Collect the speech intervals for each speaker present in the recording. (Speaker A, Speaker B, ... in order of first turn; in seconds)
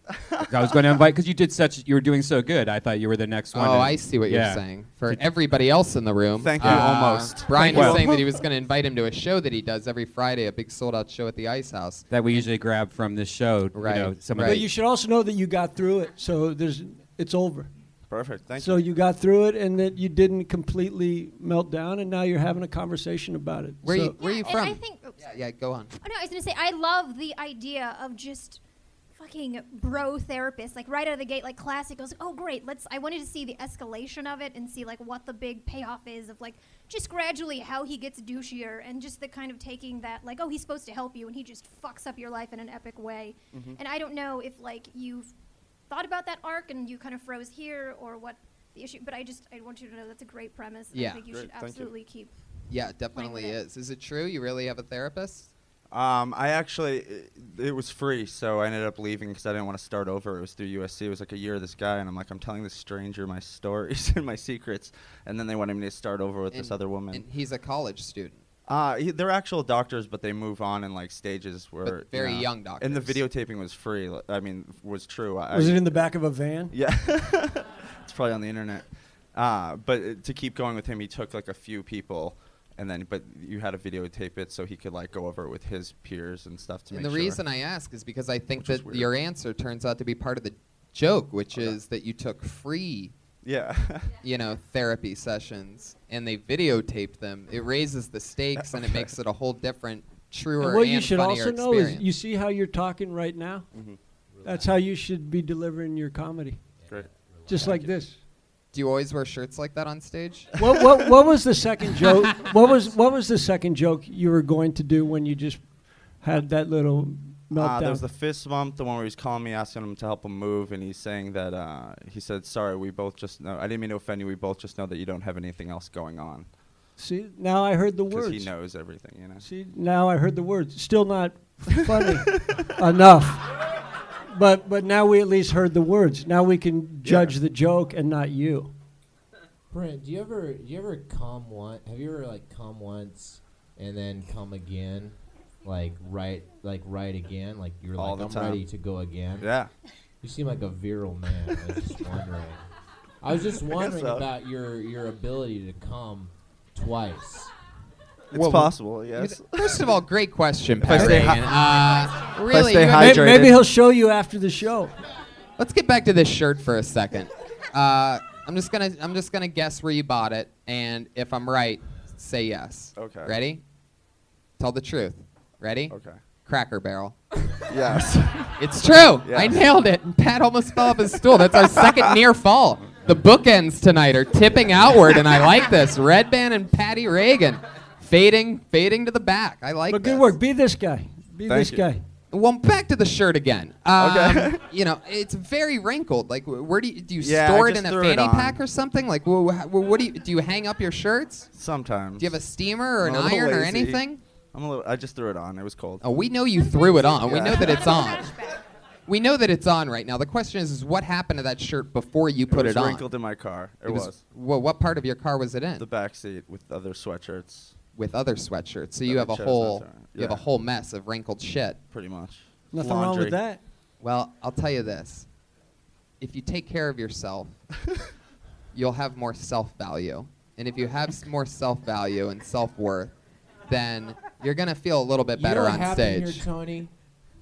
Speaker A: 0.4-5.2, 7.6-8.0, 12.1-14.7
Speaker B: 3.5-12.1, 13.7-14.6, 23.8-25.9, 50.9-51.2, 52.7-55.5, 66.5-68.4, 71.8-73.2, 86.9-93.1, 94.2-102.0, 108.7-110.5, 158.3-163.3, 165.6-173.6, 174.6-175.9, 176.5-177.2, 178.6-190.3, 192.3-201.5, 202.2-204.2, 206.0-208.3, 209.1-213.1, 213.9-215.9, 218.0-221.8, 224.0-225.3, 226.2-227.6, 228.7-233.1, 233.7-236.5
Speaker C: 6.4-8.4, 18.1-18.9, 43.5-43.8, 51.3-51.9, 55.9-67.2, 68.7-76.1, 76.7-87.4, 88.6-89.1, 91.5-91.8, 93.4-94.1, 98.7-99.0, 103.7-104.0, 117.5-126.5, 128.1-129.5, 131.9-132.5, 137.0-137.3, 148.0-148.6, 149.4-149.7, 153.6-154.3, 158.3-159.9, 160.8-161.5, 162.5-163.6, 173.0-173.3, 175.9-176.2, 177.7-178.6, 179.2-179.7, 181.6-182.2, 191.5-191.9, 194.0-194.6, 197.2-198.6, 201.5-202.4, 203.0-206.0, 207.2-208.0, 212.5-214.2, 215.8-217.8, 219.1-220.4, 221.9-223.4
Speaker D: 14.4-17.7, 18.6-24.2, 75.5-76.7, 100.6-103.7, 104.5-106.6, 107.5-108.2, 110.6-115.6, 116.2-118.0, 127.0-128.5, 129.4-133.4, 134.3-138.7, 162.9-164.9, 189.9-192.0, 222.7-223.6
Speaker E: 24.2-25.2, 26.0-28.6, 29.2-45.3, 45.9-52.3, 53.1-53.6, 207.4-208.6
Speaker F: 104.3-104.8, 106.8-108.0, 139.7-149.5, 150.2-152.7, 153.2-157.5, 235.3-236.9